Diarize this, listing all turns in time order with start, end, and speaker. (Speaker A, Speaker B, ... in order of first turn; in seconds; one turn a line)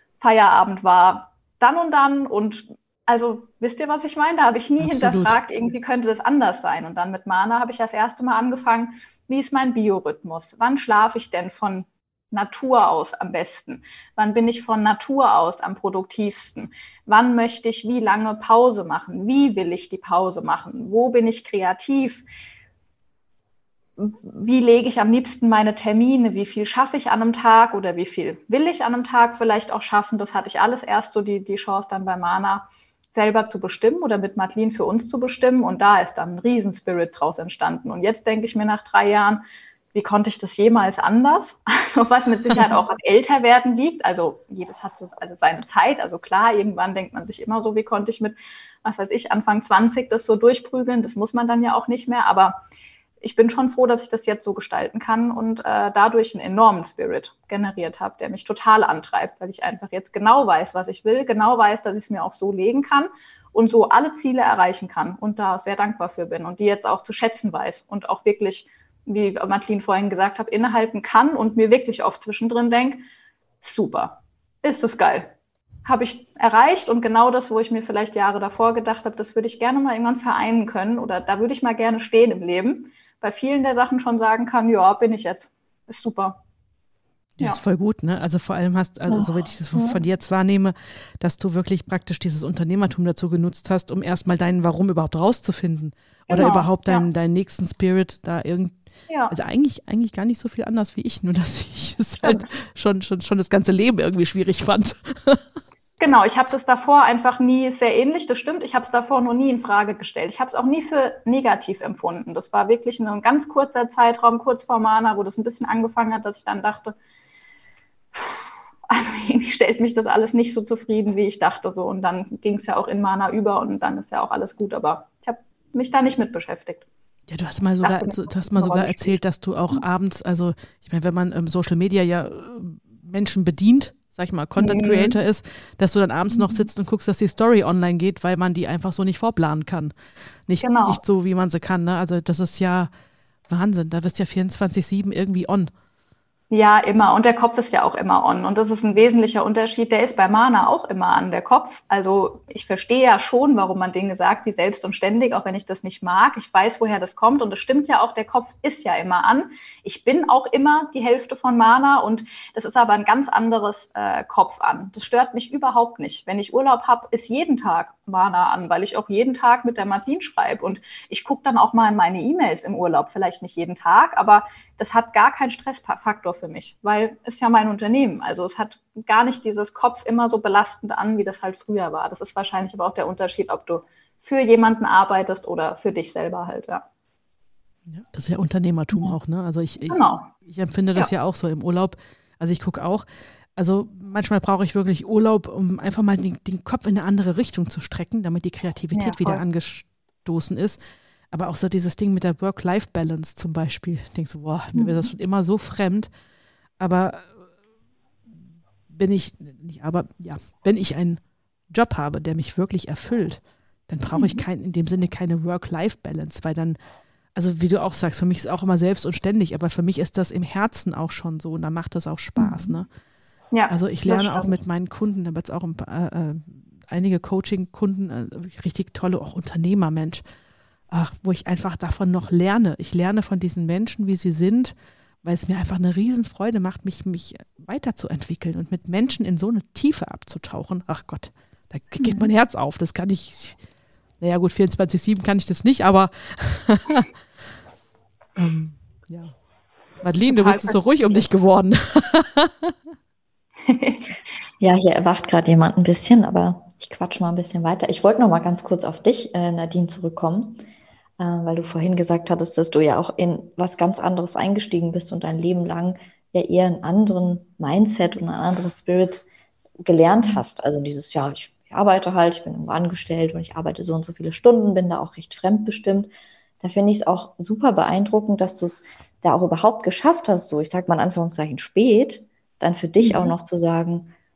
Speaker A: 0.2-22.2
Speaker B: 4.8-5.4
Speaker A: 24.0-39.4
Speaker A: 39.9-52.6
Speaker A: 53.2-73.1
Speaker A: 73.6-75.3
Speaker A: 75.8-86.4
Speaker B: 87.4-98.8
Speaker C: 89.1-90.0
Speaker A: 96.3-97.1
Speaker A: 99.1-99.3
Speaker B: 99.3-105.4
Speaker A: 102.2-102.5
Speaker A: 106.0-117.0
Speaker A: 118.2-126.9
Speaker B: 127.3-139.9
Speaker A: 127.8-129.2
Speaker A: 134.6-135.2
Speaker A: 136.3-136.7
Speaker B: 140.5-142.9
Speaker A: 140.6-141.0
Speaker B: 143.5-145.7
Speaker A: 146.5-186.8
Speaker B: 187.9-200.8
Speaker A: 189.8-190.3
Speaker A: 198.9-199.4
Speaker B: 201.3-206.1
Speaker A: 204.8-205.1
Speaker B: 206.8-207.3
Speaker B: 208.9-216.8
Speaker A: 214.2-214.4
Speaker B: 217.3-222.9
Speaker A: 222.4-222.7
Speaker A: 223.5-224.5
Speaker B: 223.7-230.2
Speaker B: 230.9-243.6
Speaker A: 242.0-242.3
Speaker B: 244.2-247.1
Speaker B: 248.4-249.3
Speaker B: 250.0-252.8
Speaker A: 250.3-251.3
Speaker A: 253.7-254.2
Speaker C: 254.6-260.6
Speaker C: 261.2-269.2
Speaker C: 269.8-284.1
Speaker A: 283.0-283.3